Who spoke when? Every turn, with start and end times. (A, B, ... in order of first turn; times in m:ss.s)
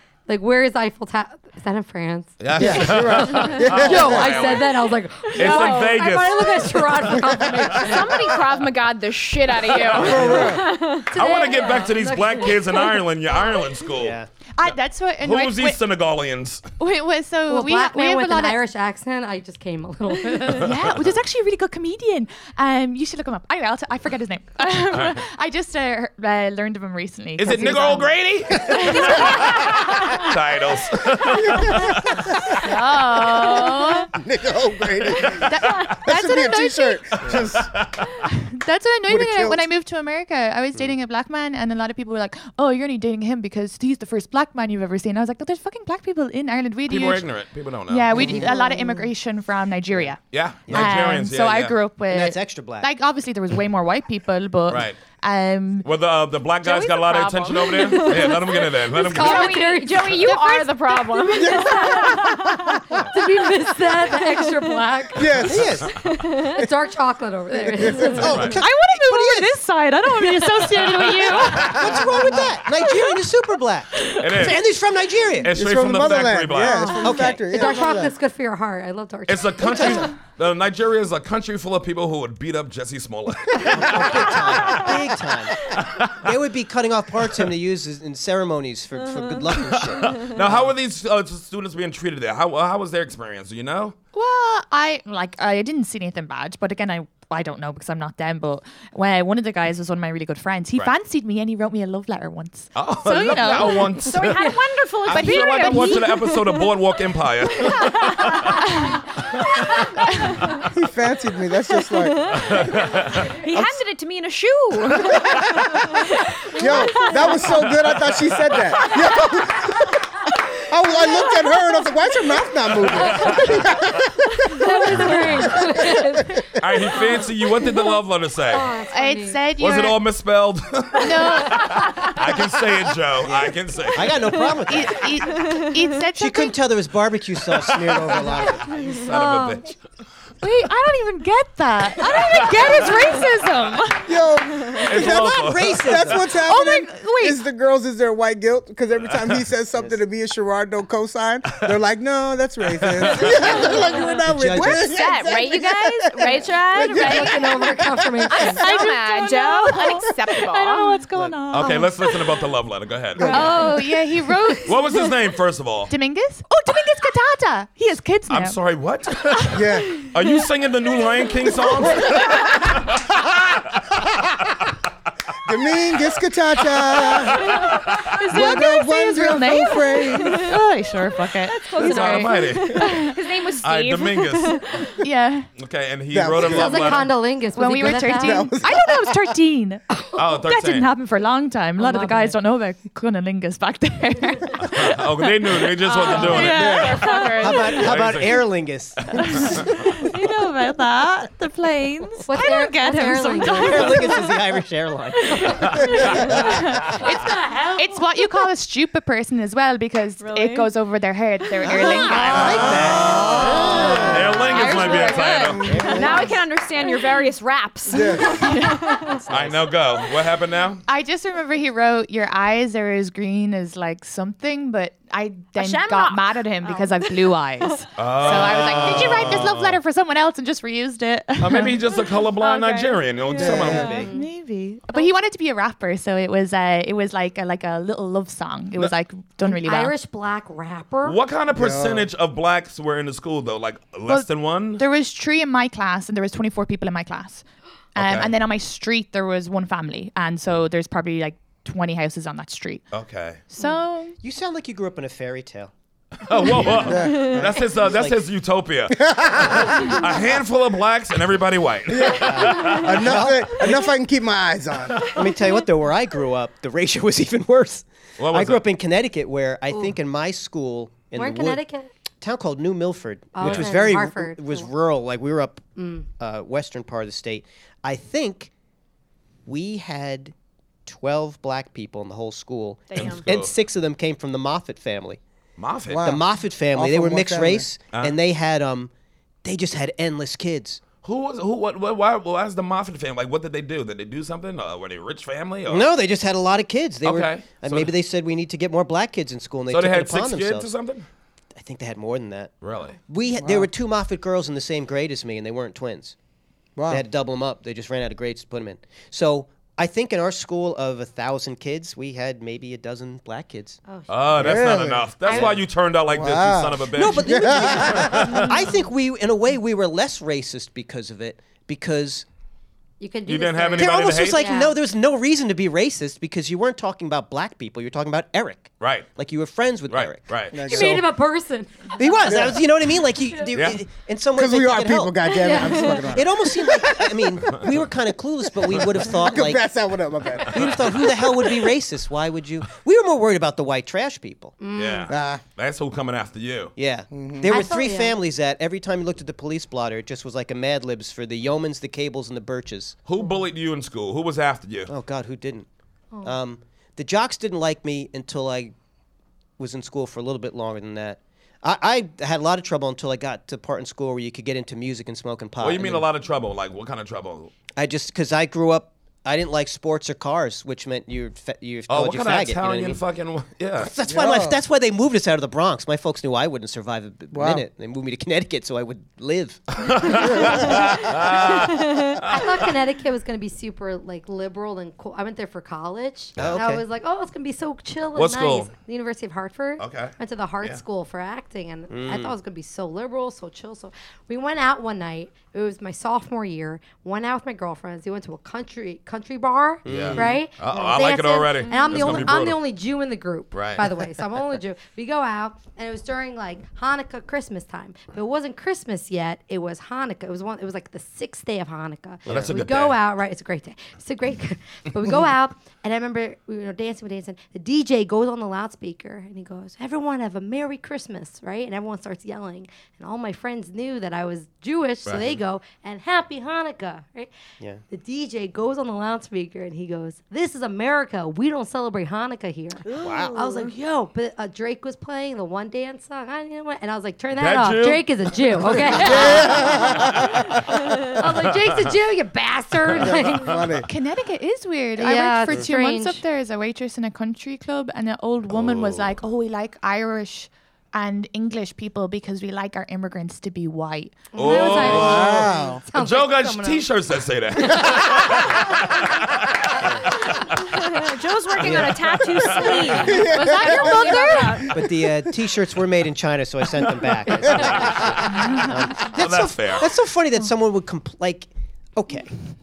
0:00.3-0:03.0 A
0:02.4-0:08.0 B
0:02.6-0:04.3 C
0:03.3-0:03.6 D
0:03.7-0:08.4 A
0:05.3-0:06.1 D
0:07.7-0:13.7 D
0:09.6-0:14.2 B
0:10.0-0:10.7 C
0:11.1-0:12.9 A
0:14.0-0:14.3 E
0:14.6-0:15.8 F
0:15.2-0:16.7 B
0:16.8-0:18.6 F
0:17.5-0:20.7 A
0:20.5-0:29.4 F
0:27.4-0:32.7 B
0:29.0-0:29.4 C
0:31.2-0:32.6 C
0:32.5-0:34.1 F
0:34.1-0:37.9 C
0:35.4-0:37.0 F
0:37.3-0:38.0 B
0:38.2-0:47.3 F
0:39.1-0:39.7 C
0:46.9-0:48.4 B
0:47.9-0:55.9 F
0:48.3-0:49.1 A
0:50.3-0:51.8 B
0:50.7-0:51.0 E
0:52.1-0:52.9 E
0:54.7-0:55.0 B
0:55.8-0:59.5 B
0:56.6-1:02.9 D
0:58.9-1:02.5 A
1:00.3-1:00.7 F
1:01.4-1:03.0 C
1:03.1-1:05.5 A
1:04.1-1:05.2 D
1:05.2-1:05.8 C
1:05.4-1:06.0 E
1:05.9-1:06.6 D
1:06.5-1:08.5 A
1:07.6-1:08.5 C
1:08.1-1:08.6 B
1:08.2-1:09.6 E
1:08.5-1:12.4 F
1:10.2-1:11.7 A
1:11.5-1:15.5 E
1:14.0-1:14.2 F
1:14.2-1:14.6 B
1:15.4-1:17.0 B
1:15.6-1:18.1 C
1:16.8-1:20.2 A
1:17.0-1:17.5 E
1:19.3-1:25.2 B
1:19.6-1:20.1 E
1:23.7-1:30.7 E
1:25.7-1:26.3 B
1:29.1-1:29.4 D
1:29.6-1:34.0 B
1:30.0-1:30.3 D
1:34.1-1:44.1 F
1:42.8-1:48.6 B
1:43.1-1:46.8 D
1:45.1-1:46.3 F
1:47.5-1:50.7 D
1:48.7-1:49.0 F
1:50.0-1:50.4 F
1:50.7-1:52.8 C
1:51.9-1:57.7 D
1:52.3-1:53.4 B
1:55.0-1:55.9 C
1:56.6-2:04.7 C
1:57.5-1:59.3 B
2:02.7-2:03.9 B
2:04.6-2:07.3 A
2:04.9-2:05.4 B
2:05.2-2:05.4 D
2:05.3-2:06.6 C
2:06.6-2:08.7 B
2:08.5-2:09.5 A
2:08.9-2:10.0 F
2:09.6-2:14.2 B
2:11.0-2:11.9 F
2:13.2-2:15.0 E
2:14.7-2:16.6 F
2:15.3-2:15.8 D
2:16.2-2:18.7 E
2:17.8-2:18.5 C
2:18.6-2:19.8 B
2:18.7-2:19.0 D
2:20.4-2:24.1 F
2:22.0-2:22.9 B
2:24.1-2:38.3 C
2:24.8-2:26.1 B
2:24.9-2:26.3 E
2:26.4-2:27.4 F
2:32.8-2:33.7 B
2:33.2-2:37.8 D
2:34.3-2:34.9 E
2:36.9-2:38.8 A
2:38.3-2:42.2 F
2:38.3-2:41.0 D
2:41.5-2:43.7 B
2:43.2-2:43.8 C
2:43.3-2:45.1 F
2:44.6-2:45.9 B
2:45.9-2:48.6 F
2:48.3-2:54.0 B
2:49.5-2:50.1 C
2:51.8-2:52.4 C
2:55.5-2:57.7 C
2:56.7-2:58.2 B
2:57.3-2:58.6 D
2:58.0-3:03.2 F
2:58.3-3:00.5 C
3:00.0-3:00.6 D
3:01.4-3:05.0 D
3:01.8-3:03.1 B
3:03.6-3:04.9 B
3:05.0-3:05.5 F
3:05.6-3:07.2 B
3:06.1-3:07.1 C
3:06.4-3:08.5 A
3:07.6-3:09.9 F
3:08.1-3:09.2 C
3:10.2-3:10.9 B
3:10.4-3:15.0 F
3:11.8-3:12.4 A
3:14.6-3:17.0 B
3:15.8-3:18.0 D
3:16.0-3:17.8 F
3:16.5-3:17.0 C
3:17.4-3:19.6 E
3:17.7-3:19.7 B
3:19.2-3:24.4 F
3:22.2-3:24.2 A
3:23.5-3:25.7 E
3:25.3-3:33.1 F
3:25.5-3:26.4 B
3:27.0-3:27.9 A
3:30.2-3:30.7 D
3:31.6-3:34.4 E
3:31.6-3:32.6 D
3:32.4-3:34.3 C
3:32.4-3:35.9 B
3:34.4-3:39.3 D
3:34.5-3:36.0 F
3:35.6-3:36.3 C
3:35.6-3:36.3 E
3:37.9-3:38.5 C
3:38.4-3:39.0 F
3:39.3-3:39.6 E
3:39.3-3:40.8 B
3:40.9-3:51.8 F
3:45.6-3:47.9 D
3:48.0-3:49.8 B
3:48.5-3:48.9 D
3:51.4-3:54.1 B
3:51.7-3:54.1 D
3:53.4-3:54.0 C
3:53.9-3:54.3 A
3:54.0-4:00.0 F
3:59.4-4:01.2 A
4:01.0-4:04.8 B
4:01.5-4:02.1 C
4:04.1-4:12.9 F
4:08.0-4:08.3 B
4:12.9-4:13.4 B
4:13.5-4:14.2 F
4:14.2-4:15.7 E
4:16.2-4:23.2 B
4:16.8-4:17.6 C
4:17.0-4:17.4 D
4:17.2-4:18.2 E
4:19.0-4:20.0 C
4:21.9-4:25.0 C
4:22.2-4:23.8 E
4:24.9-4:25.2 B
4:25.1-4:31.6 E
4:28.2-4:28.6 B
4:29.7-4:30.0 A
4:31.1-4:31.9 A
4:32.2-4:35.6 E
4:33.3-4:34.7 A
4:33.4-4:33.8 B
4:35.8-4:36.1 A
4:36.2-4:38.5 E
4:39.5-4:40.3 E
4:40.9-4:45.2 E
4:42.9-4:43.3 D
4:43.0-4:43.5 B
4:45.6-4:46.0 B
4:45.9-4:47.7 C
4:46.0-4:48.9 E
4:49.4-4:50.8 E
4:51.0-4:55.9 B
4:55.7-5:00.7 E
4:57.0-4:57.9 B
4:59.7-5:01.1 B
5:01.6-5:02.5 E
5:02.6-5:03.0 B
5:03.1-5:06.2 E
5:03.4-5:03.7 C
5:06.8-5:07.0 C
5:06.9-5:13.8 E
5:13.9-5:14.6 A
5:14.1-5:18.7 B
5:14.4-5:15.5 C
5:15.2-5:15.6 A
5:16.1-5:18.4 C
5:16.9-5:22.3 E
5:23.0-5:24.8 A
5:23.3-5:24.5 B
5:23.8-5:31.1 E
5:28.8-5:29.1 B
5:29.9-5:31.0 B
5:30.5-5:31.1 C
5:30.6-5:32.3 A
5:32.0-5:39.7 E
5:32.2-5:32.6 C
5:34.4-5:37.6 C
5:35.3-5:36.1 A
5:38.7-5:41.5 C
5:40.5-5:44.6 E
5:44.6-5:45.1 A
5:44.8-5:46.7 B
5:45.1-5:45.4 C
5:46.8-5:53.0 E
5:47.1-5:47.5 C
5:47.4-5:48.2 A
5:53.1-5:54.9 B
5:54.9-5:55.7 E
5:56.2-5:58.8 E
5:59.6-6:06.1 E
6:05.6-6:07.5 B
6:07.8-6:13.0 E
6:11.9-6:13.9 B
6:13.8-6:20.8 E
6:14.1-6:14.6 C
6:17.3-6:17.6 C
6:19.8-6:22.7 B
6:21.8-6:22.2 D
6:22.2-7:07.3 A
6:26.4-6:26.6 B
6:26.4-6:26.8 E
6:28.2-6:28.7 B
6:29.8-6:30.8 B
6:31.9-6:32.4 E
6:39.8-6:40.4 E
6:39.9-6:42.6 B
6:41.7-6:42.1 D
6:43.5-6:43.9 B
6:52.2-6:52.6 E
6:52.3-6:53.0 B
7:05.1-7:05.4 B
7:07.9-7:20.0 A
7:13.0-7:13.4 B
7:17.4-7:22.0 B
7:19.1-7:20.4 C
7:20.8-7:21.2 D
7:21.2-7:23.6 A
7:22.9-7:23.9 B
7:23.0-7:23.9 C
7:23.9-7:34.3 F
7:25.0-7:26.2 A
7:28.5-7:29.2 B
7:34.3-7:36.9 A
7:34.4-7:41.1 B
7:34.8-7:35.8 C
7:40.6-7:44.8 D
7:41.6-7:42.2 E
7:41.6-7:43.1 B
7:42.5-7:45.3 C
7:43.8-7:44.4 F
7:44.7-7:52.3 E
7:47.5-7:49.9 B